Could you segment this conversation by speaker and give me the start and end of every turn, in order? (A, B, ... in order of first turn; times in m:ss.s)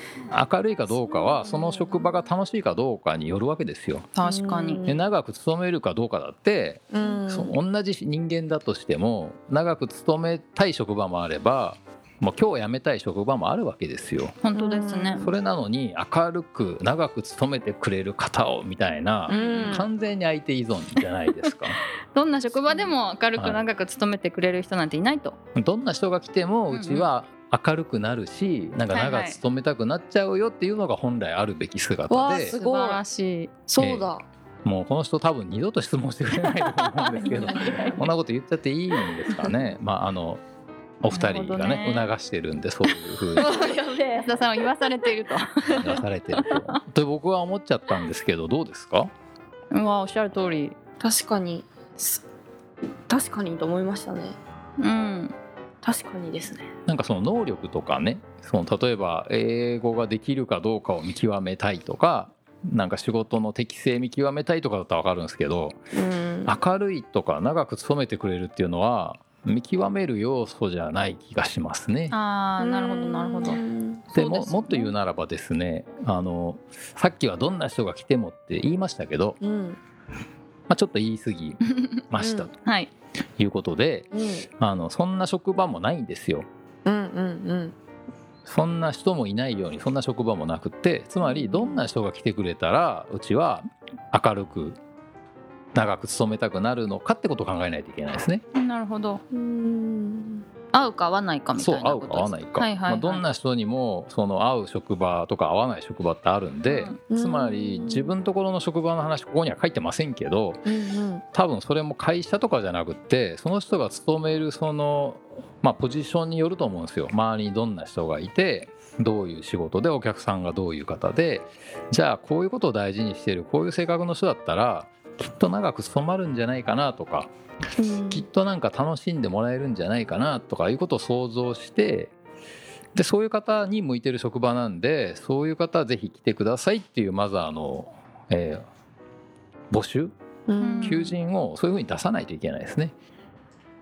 0:00.3-0:04.1 A
0:01.2-0:01.9 B
0:04.2-0:04.8 C
0:04.2-0:05.1 B
0:04.9-0:14.4 A
0:06.9-0:07.6 B
0:14.4-0:15.2 C
0:14.5-0:15.3 B
0:15.2-0:21.8 A
0:19.3-0:19.9 B
0:19.3-0:19.8 C
0:22.1-0:25.4 C
0:22.7-0:22.9 B
0:25.6-0:32.6 A
0:26.7-0:27.1 C
0:28.9-0:29.4 C
0:32.1-0:33.0 B
0:32.4-0:33.5 C
0:33.7-0:34.2 B
0:33.8-0:34.1 A
0:34.6-0:40.4 A
0:36.9-0:38.0 C
0:41.0-0:43.5 A
0:41.1-0:42.1 C
0:42.9-0:43.2 C
0:43.4-0:44.3 B
0:44.2-0:46.8 C
0:45.6-0:46.0 B
0:45.8-0:49.1 A
0:49.7-0:50.8 C
0:51.0-0:52.2 B
0:53.1-0:54.4 B
0:54.8-0:55.3 C
0:55.8-0:56.7 B
0:56.9-1:05.8 A
1:05.9-1:06.6 B
1:06.5-1:12.2 A
1:12.1-1:13.6 C
1:12.6-1:14.9 B
1:14.1-1:19.4 A
1:14.2-1:14.5 C
1:19.4-1:19.8 B
1:20.7-1:22.5 A
1:22.2-1:22.5 B
1:22.6-1:22.9 C
1:23.4-1:24.1 A
1:24.1-1:24.5 B
1:24.6-1:26.5 A
1:26.8-1:27.7 B
1:28.5-1:34.8 A
1:31.2-1:31.8 B
1:35.8-1:38.4 A
1:38.6-1:39.2 C
1:39.3-1:40.4 B
1:40.7-1:43.2 C
1:41.6-1:50.6 A
1:46.7-1:47.0 C
1:47.1-1:48.2 B
1:50.6-1:51.2 B
1:51.3-2:07.3 A
2:07.8-2:08.3 B
2:08.1-2:12.1 A
2:13.0-2:18.6 A
2:19.7-2:20.1 A
2:20.5-2:21.2 B
2:20.6-2:21.0 C
2:20.8-2:22.9 A